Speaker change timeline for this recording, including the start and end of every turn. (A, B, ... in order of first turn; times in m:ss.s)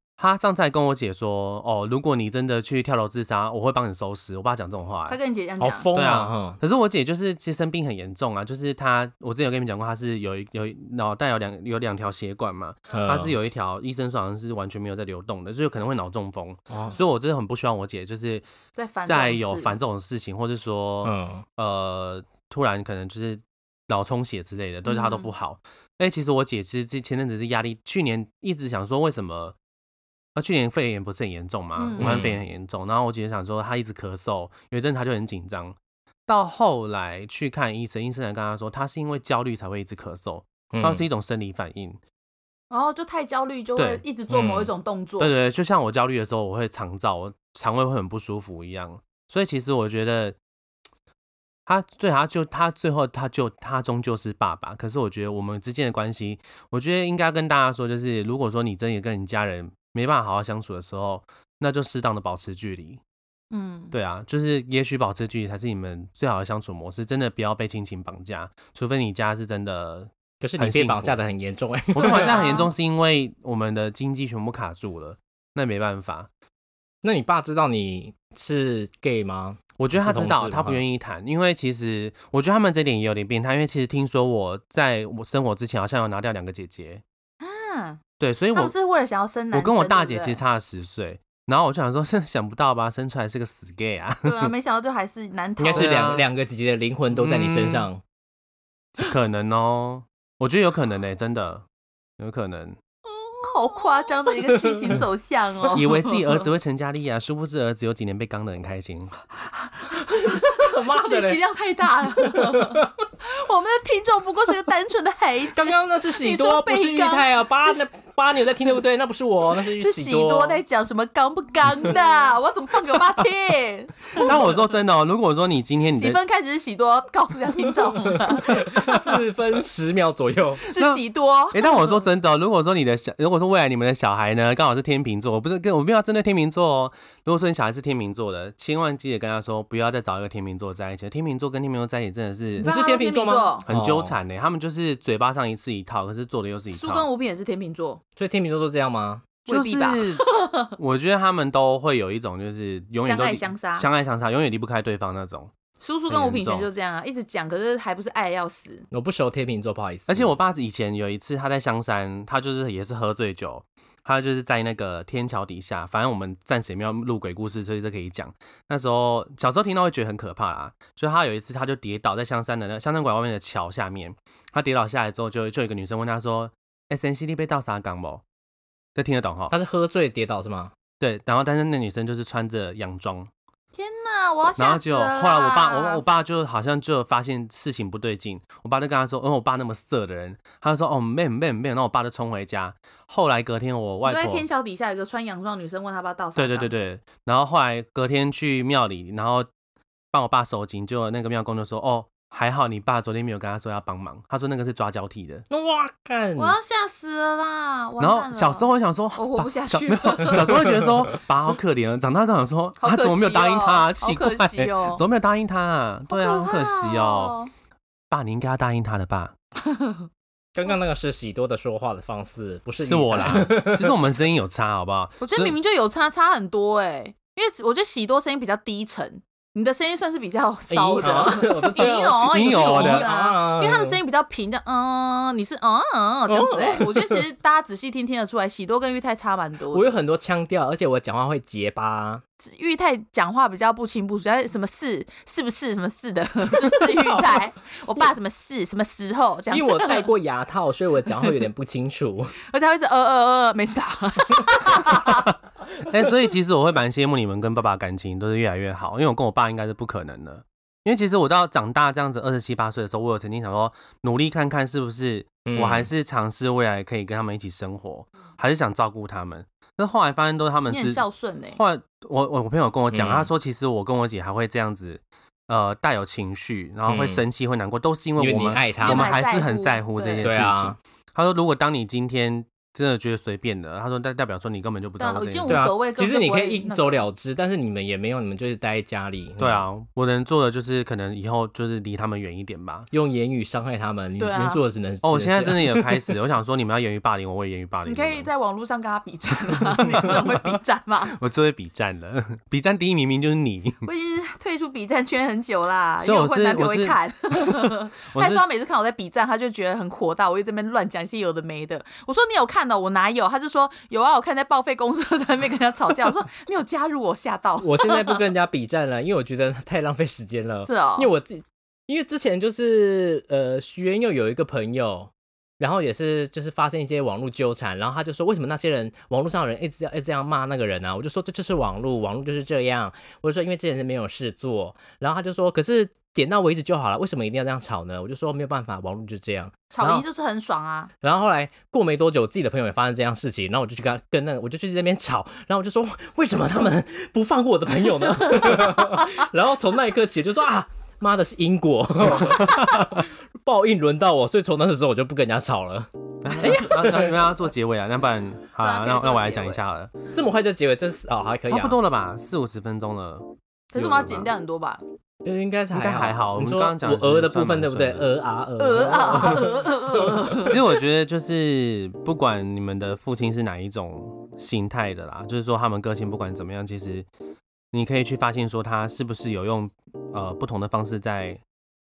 0:00.2-0:05.2 A
0:05.1-0:05.9 B
0:05.6-0:06.6 C
0:05.9-0:18.5 A
0:12.9-0:13.4 C
0:16.7-0:17.0 C
0:18.8-0:19.8 B
0:19.0-0:29.6 A
0:21.0-0:21.4 C
0:24.8-0:25.3 B
0:30.4-0:42.0 A
0:31.8-0:32.2 B
0:32.0-0:32.4 C
0:40.7-0:41.0 C
0:42.7-0:45.3 B
0:43.8-0:44.0 A
0:44.3-0:44.7 C
0:45.2-0:50.4 A
0:51.7-1:03.0 A
1:03.5-1:03.9 B
1:03.9-1:11.2 A
1:10.4-1:12.4 C
1:11.9-1:16.3 A
1:12.0-1:12.7 B
1:17.0-1:20.8 C
1:19.8-1:27.0 A
1:27.4-1:28.0 B
1:28.2-1:28.7 A
1:28.5-1:30.4 B
1:29.5-1:34.5 A
1:34.2-1:36.2 B
1:35.6-1:38.0 C
1:35.7-1:36.2 A
1:37.1-1:37.9 A
1:39.0-1:41.7 A
1:42.2-1:42.8 A
1:43.4-1:46.4 B
1:44.3-1:45.0 C
1:45.7-1:49.2 A
1:49.7-1:57.8 B
1:50.2-1:51.4 C
1:52.2-1:52.9 C
1:55.5-2:00.6 C
1:59.8-2:04.5 B
2:04.2-2:06.2 A
2:06.0-2:09.0 B
2:08.3-2:10.6 C
2:10.7-2:12.0 B
2:10.8-2:22.7 A
2:22.6-2:24.2 C
2:22.6-2:23.6 B
2:23.7-2:27.1 A
2:26.7-2:28.0 B
2:28.2-2:29.3 C
2:29.5-2:30.7 B
2:29.5-2:35.5 A
2:33.0-2:33.9 B
2:35.8-2:38.9 B
2:36.1-2:36.7 A
2:38.9-2:40.3 C
2:40.1-2:58.2 A
2:59.0-2:59.5 A
2:59.5-3:00.7 C
3:01.0-3:03.3 A
3:03.8-3:06.0 B
3:04.6-3:14.4 A
3:14.0-3:16.7 B
3:16.4-3:19.5 A
3:20.1-3:25.4 A
3:25.5-3:26.6 C
3:26.4-3:30.8 B
3:28.0-3:37.4 A
3:32.8-3:35.0 B
3:36.1-3:37.5 B
3:38.1-3:39.4 A
3:39.7-3:40.1 B
3:40.6-3:44.0 C
3:42.8-3:45.6 A
3:45.2-4:00.0 B
3:50.7-3:54.0 C
3:51.8-3:53.1 A
3:56.3-3:57.2 C
3:59.7-4:02.2 C
4:02.4-4:10.1 B
4:06.8-4:07.4 C
4:09.5-4:12.4 C
4:12.5-4:15.3 B
4:15.8-4:31.0 A
4:25.4-4:25.9 C
4:30.7-4:31.6 B
4:31.6-4:45.6 A
4:32.9-4:33.3 C
4:36.9-4:37.2 C
4:38.2-4:39.1 C
4:38.8-4:40.3 B
4:40.2-4:40.8 C
4:45.0-4:47.1 B
4:45.5-4:49.7 C
4:49.4-4:52.9 A
4:52.9-4:56.1 C
4:54.2-4:54.6 B
4:55.0-4:58.3 A
4:57.8-5:01.2 B
4:59.8-5:00.2 A
5:01.1-5:03.9 A
5:03.8-5:18.2 B
5:06.0-5:08.4 A
5:17.6-5:40.0 C
5:20.6-5:21.1 B
5:39.7-5:40.9 B
5:41.0-5:57.2 C
5:52.2-5:52.9 A
5:56.2-5:59.9 A
5:58.6-5:59.6 B
6:00.1-6:01.8 C
6:01.5-6:04.3 A
6:03.7-6:04.8 B
6:05.2-6:10.4 C
6:05.7-6:08.1 A
6:08.6-6:10.6 B
6:10.4-6:17.1 A
6:17.7-6:21.4 A